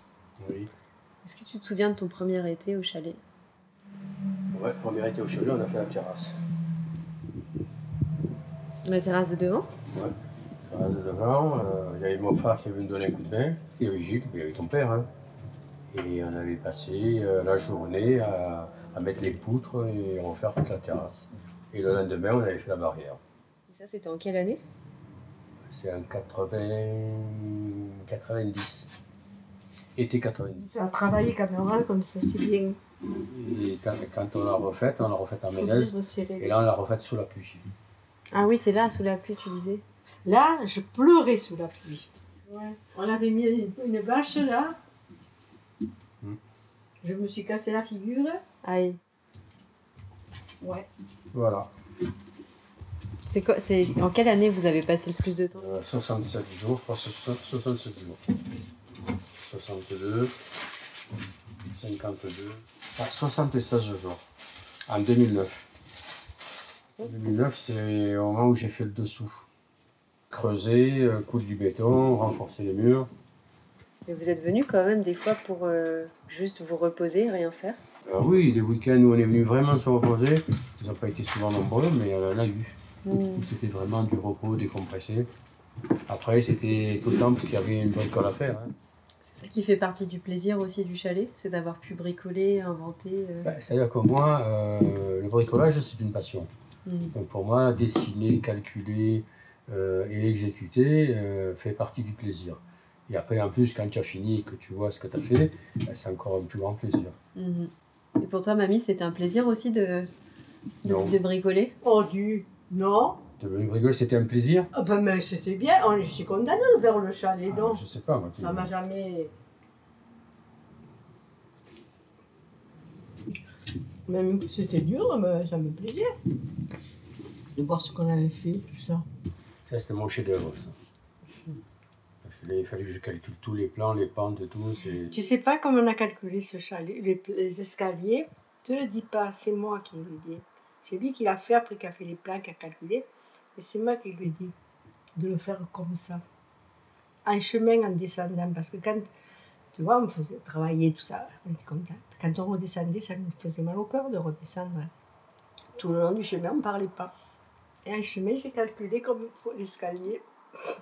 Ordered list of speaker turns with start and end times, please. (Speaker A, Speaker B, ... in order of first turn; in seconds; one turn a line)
Speaker A: 0.4-0.7
Speaker B: 1.2-3.2
Speaker A: 4.5-6.4
Speaker B: 8.8-9.7
Speaker A: 10.7-15.1
Speaker A: 15.9-23.2
Speaker B: 23.7-24.6
Speaker A: 25.7-28.9
Speaker A: 30.0-30.7
Speaker C: 30.6-32.8
Speaker A: 33.2-37.6
Speaker C: 35.5-36.5
Speaker B: 38.3-39.8
Speaker C: 40.2-44.8
Speaker C: 47.0-48.4
Speaker B: 48.6-49.0
Speaker C: 50.6-50.9
Speaker A: 51.3-51.7
Speaker B: 53.3-55.7
Speaker A: 55.5-58.2
Speaker A: 59.4-60.3
Speaker A: 61.7-64.2
Speaker A: 64.9-65.7
Speaker A: 67.0-69.5
Speaker A: 70.3-73.1
Speaker B: 74.1-77.8
Speaker A: 78.1-82.8
Speaker B: 83.0-83.5
Speaker A: 83.4-85.3
Speaker A: 86.1-88.7
Speaker B: 89.2-93.5
Speaker A: 93.4-96.5
Speaker B: 96.9-97.1
Speaker A: 97.1-107.2
Speaker B: 107.3-110.1
Speaker B: 110.8-111.8
Speaker A: 110.8-111.2
Speaker C: 111.8-113.2
Speaker A: 113.4-114.7
Speaker C: 114.7-117.8
Speaker A: 117.5-118.7
Speaker C: 118.4-119.3
Speaker C: 124.1-126.1
Speaker C: 127.5-129.1
Speaker A: 129.7-130.8
Speaker A: 132.2-135.3
Speaker C: 135.1-144.5
Speaker C: 145.2-146.2
Speaker C: 147.2-149.1
Speaker C: 149.7-154.9
Speaker C: 155.8-157.1
Speaker C: 157.8-160.2